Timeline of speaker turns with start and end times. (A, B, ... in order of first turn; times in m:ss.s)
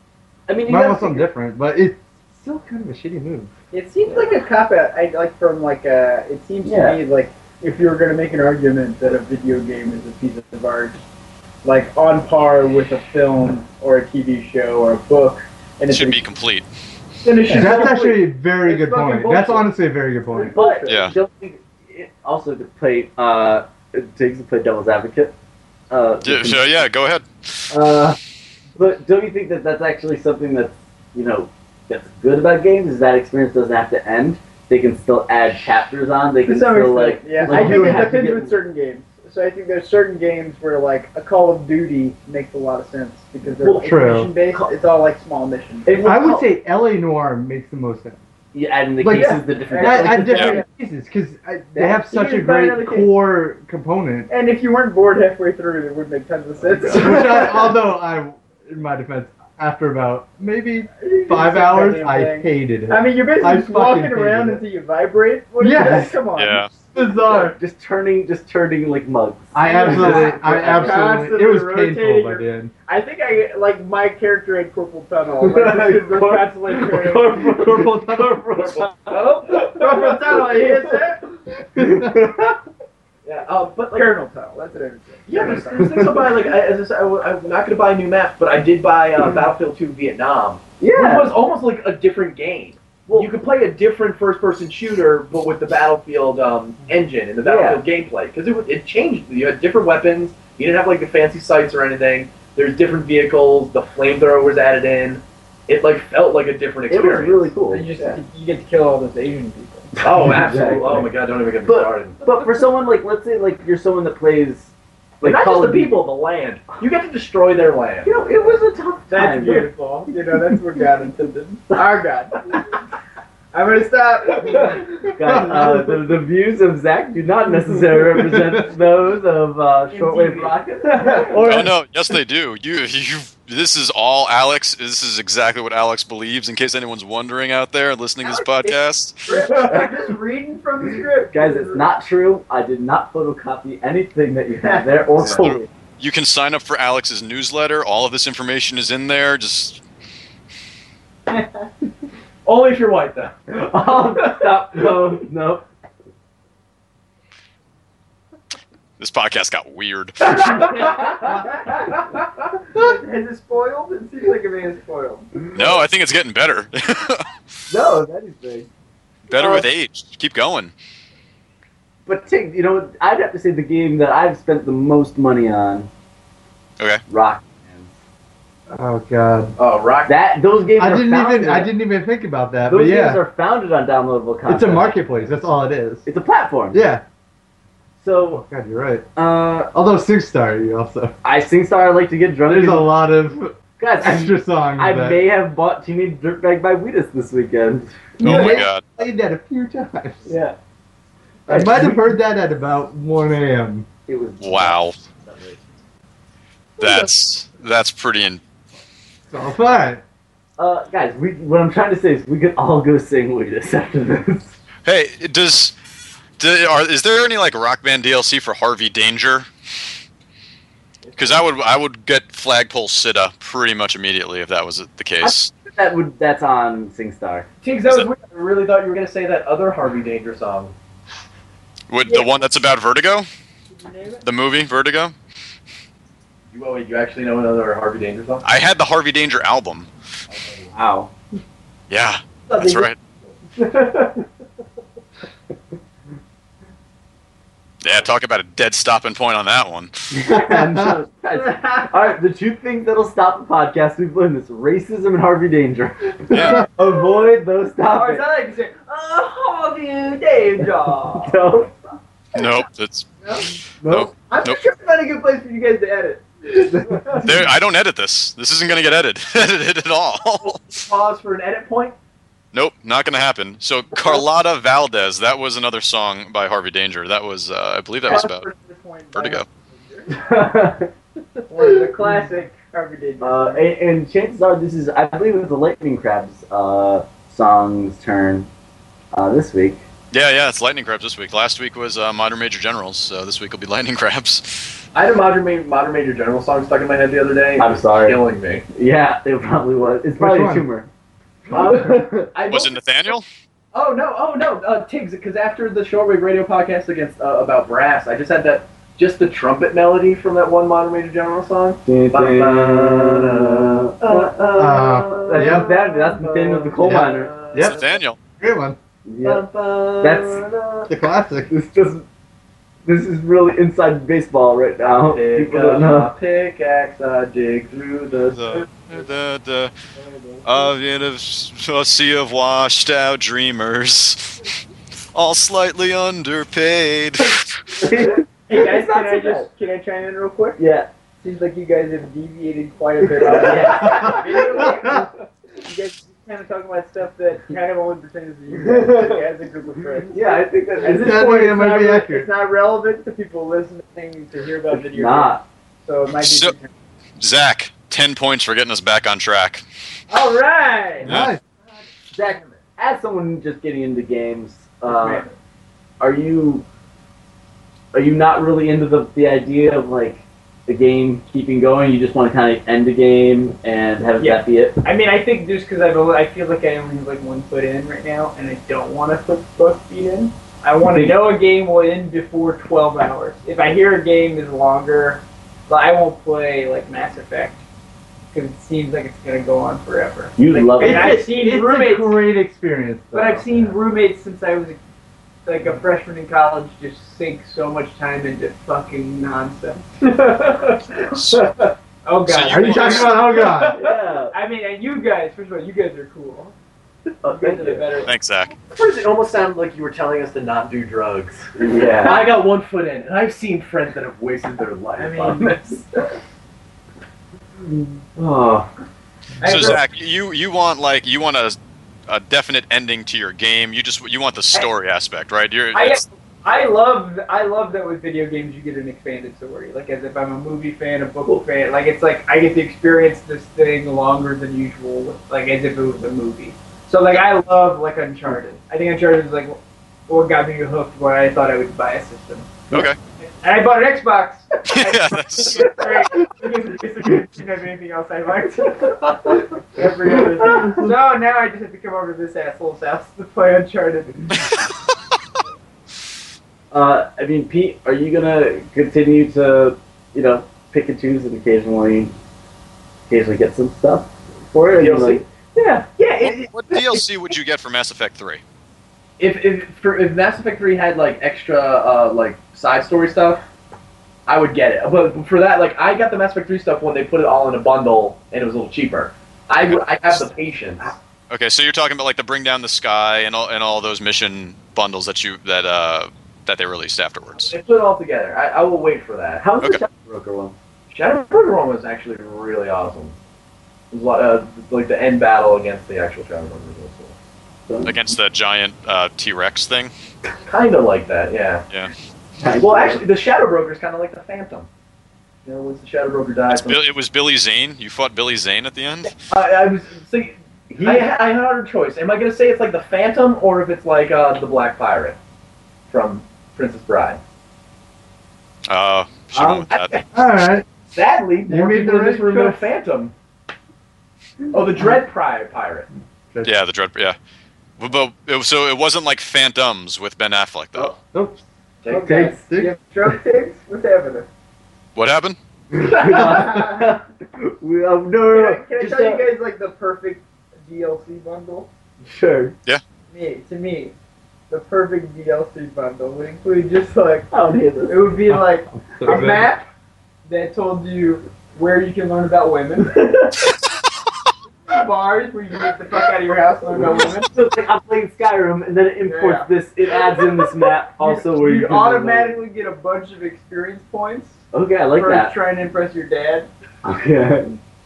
0:00.5-0:01.3 A
0:00.6-0:03.5 B
0:03.7-0:11.0 C
0:06.6-0:07.0 A
0:11.6-0:16.2 C
0:15.9-0:16.7 D
0:17.2-0:19.7 C
0:17.5-0:18.0 A
0:17.5-0:20.6 B
0:20.3-0:25.3 A
0:20.4-0:20.9 C
0:20.9-0:21.1 D
0:25.9-0:26.8 A
0:26.2-0:27.7 D
0:27.7-0:28.2 A
0:28.7-0:38.6 A
0:36.4-0:46.4 C
0:37.4-0:38.3 B
0:43.6-0:44.7 A
0:43.8-0:44.3 B
0:45.8-0:46.4 A
0:46.0-0:48.2 B
0:48.5-0:50.6 A
0:49.0-0:54.3 B
0:49.1-0:50.6 C
0:50.3-0:50.6 D
0:51.7-0:53.1 C
0:54.3-0:57.7 C
0:56.8-0:57.4 A
0:56.9-1:04.6 B
1:01.0-1:06.9 C
1:05.6-1:06.2 B
1:06.4-1:06.7 D
1:06.9-1:07.6 B
1:07.5-1:11.1 A
1:09.5-1:12.7 B
1:09.6-1:17.4 C
1:15.4-1:20.9 A
1:17.4-1:18.5 B
1:19.0-1:19.7 E
1:19.5-1:21.2 C
1:21.7-1:22.2 B
1:21.8-1:22.6 A
1:23.2-1:24.1 E
1:23.9-1:26.2 C
1:25.3-1:48.2 E
1:30.8-1:31.4 A
1:33.1-1:33.3 A
1:37.4-1:37.8 A
1:46.9-1:47.9 A
1:47.7-1:49.9 C
1:50.0-1:51.1 A
1:50.0-1:52.2 E
1:51.6-1:55.9 A
1:55.2-1:58.2 E
1:58.0-1:59.7 A
1:59.1-2:02.6 C
2:03.5-2:04.9 C
2:05.1-2:11.7 A
2:05.2-2:05.9 B
2:08.0-2:08.6 B
2:09.9-2:11.5 C
2:11.4-2:19.2 D
2:18.3-2:21.9 C
2:19.3-2:20.1 A
2:21.3-2:25.7 A
2:24.6-2:25.3 C
2:25.2-2:29.8 D
2:32.4-2:34.5 E
2:33.5-2:35.6 A
2:39.0-2:40.7 D
2:40.7-2:41.8 C
2:42.7-2:45.3 C
2:45.5-2:47.3 D
2:47.7-2:48.7 A
2:49.3-2:50.7 D
2:52.0-2:55.9 A
2:57.1-2:57.9 A
2:58.7-2:59.6 B
2:59.6-3:00.1 E
3:00.0-3:01.7 A
3:00.8-3:03.2 B
3:02.7-3:05.2 A
3:04.5-3:06.1 B
3:06.0-3:06.9 A
3:06.7-3:07.0 B
3:08.0-3:08.4 A
3:08.3-3:09.1 B
3:09.2-3:09.7 A
3:09.7-3:11.1 B
3:11.2-3:13.0 A
3:12.5-3:15.2 B
3:13.8-3:18.5 A
3:18.2-3:20.3 B
3:18.2-3:18.8 D
3:20.2-3:20.6 A
3:21.5-3:22.2 A
3:21.5-3:23.9 B
3:24.1-3:25.6 A
3:24.4-3:25.0 D
3:26.8-3:28.4 D
3:29.3-3:30.0 B
3:30.6-3:34.5 A
3:34.8-3:35.7 D
3:36.4-3:39.5 D
3:41.0-3:41.4 E
3:41.2-3:45.5 D
3:45.2-3:47.5 A
3:47.6-3:50.7 E
3:51.9-3:53.3 D
3:52.0-3:52.5 C
3:53.7-3:54.2 C
3:54.2-3:55.1 D
3:56.5-3:58.4 E
3:58.4-3:59.9 D
4:00.3-4:00.7 E
4:00.7-4:01.1 A
4:01.9-4:03.0 D
4:02.5-4:02.9 C
4:07.8-4:09.9 D
4:10.1-4:18.2 A
4:10.3-4:11.0 B
4:11.3-4:11.9 C
4:16.3-4:16.6 D
4:16.3-4:16.6 B
4:17.8-4:21.5 C
4:21.2-4:21.7 A
4:22.3-4:23.1 D
4:23.2-4:23.5 C
4:23.8-4:24.1 A
4:23.8-4:24.6 D
4:24.3-4:27.4 C
4:27.2-4:30.8 D
4:30.6-4:31.9 E
4:32.5-4:38.4 D
4:38.1-4:40.2 C
4:39.1-4:39.4 D
4:40.1-4:40.9 A
4:41.5-4:43.7 C
4:43.2-4:48.5 A
4:49.1-4:49.8 A
4:50.1-4:54.8 D
4:54.9-4:58.6 E
4:57.6-4:58.2 A
4:58.7-5:00.9 A
5:00.2-5:00.7 B
5:01.5-5:03.2 E
5:01.5-5:02.3 A
5:02.4-5:03.2 D
5:03.7-5:18.0 E
5:11.8-5:17.3 A
5:14.6-5:15.7 B
5:16.8-5:17.8 B
5:17.6-5:18.2 D
5:18.4-5:18.8 B
5:19.0-5:19.4 A
5:19.2-5:20.9 E
5:20.0-5:20.4 A
5:20.9-5:21.5 B
5:21.5-5:22.0 A
5:22.8-5:26.1 A
5:25.0-5:28.8 E
5:28.3-5:29.7 D
5:30.4-5:34.4 D
5:35.1-5:37.5 D
5:37.8-5:39.5 A
5:38.5-5:40.6 C
5:40.6-5:40.9 A
5:41.2-5:56.7 C
5:43.1-5:44.9 A
5:48.6-5:49.2 A
5:50.1-5:51.3 A
5:50.9-5:52.3 B
5:54.7-5:55.4 A
5:56.2-5:56.5 D
5:57.2-5:59.6 D
6:00.1-6:01.1 C
6:01.0-6:01.3 D
6:01.0-6:01.4 B
6:01.6-6:02.6 E
6:02.1-6:05.2 A
6:04.8-6:05.3 C
6:06.0-6:06.6 A
6:07.9-6:14.8 A
6:14.2-6:27.6 C
6:20.9-6:21.3 A
6:28.3-6:32.3 C
6:30.4-6:31.2 A
6:30.8-6:33.7 B
6:33.1-6:34.8 C
6:35.4-6:46.5 C
6:42.3-6:43.2 D
6:42.5-6:43.8 B
6:43.6-6:44.3 A
6:47.2-6:47.8 A
6:47.2-6:48.1 C
6:48.1-6:48.5 D
6:48.6-6:55.7 E
6:51.6-6:52.4 A
6:55.0-6:55.8 C
6:58.1-6:58.7 A
6:59.4-6:59.8 C
6:59.4-7:01.6 D
7:02.1-7:06.0 D
7:05.7-7:22.5 C
7:22.7-7:23.0 D
7:23.2-7:34.4 C
7:24.7-7:25.9 D
7:36.7-7:42.1 A
7:43.1-7:45.8 A
7:44.7-7:45.2 E
7:46.0-7:46.5 C
7:46.2-7:48.4 D
7:49.2-7:53.4 E
7:54.3-8:01.0 E
8:01.3-8:07.5 D
8:07.3-8:09.4 E
8:09.4-8:10.6 A
8:10.9-8:13.1 E
8:13.9-8:17.1 E
8:17.7-8:18.0 A
8:17.8-8:19.9 D
8:20.5-8:21.6 E
8:22.4-8:23.0 A
8:22.6-8:24.7 E
8:25.4-8:26.8 E
8:26.5-8:29.1 D
8:29.1-8:35.2 E
8:35.9-8:37.2 E
8:38.6-8:40.0 D
8:39.3-8:39.6 A
8:39.7-8:40.1 E
8:40.1-8:40.7 B
8:40.8-8:43.1 E
8:41.4-8:42.7 B
8:44.5-8:45.9 E
8:46.4-8:47.2 D
8:47.8-8:51.0 D
8:51.1-8:51.4 B
8:51.8-8:52.2 E
8:51.9-8:54.3 C
8:51.9-8:52.4 A
8:52.4-8:52.7 B
8:54.9-8:55.4 D
8:55.7-8:59.3 A
8:56.0-8:56.9 C
8:56.1-8:56.6 B
8:58.3-9:01.7 C
9:02.0-9:02.6 A
9:03.1-9:03.9 C
9:04.5-9:07.3 C
9:07.3-9:08.1 A
9:07.8-9:09.7 C
9:08.9-9:09.5 B
9:10.3-9:13.0 C
9:12.9-9:13.3 A
9:14.6-9:17.3 C
9:16.7-9:22.4 A
9:19.0-9:19.5 C
9:20.2-9:24.4 C
9:24.5-9:25.3 A
9:24.9-9:26.5 C
9:26.8-9:27.6 A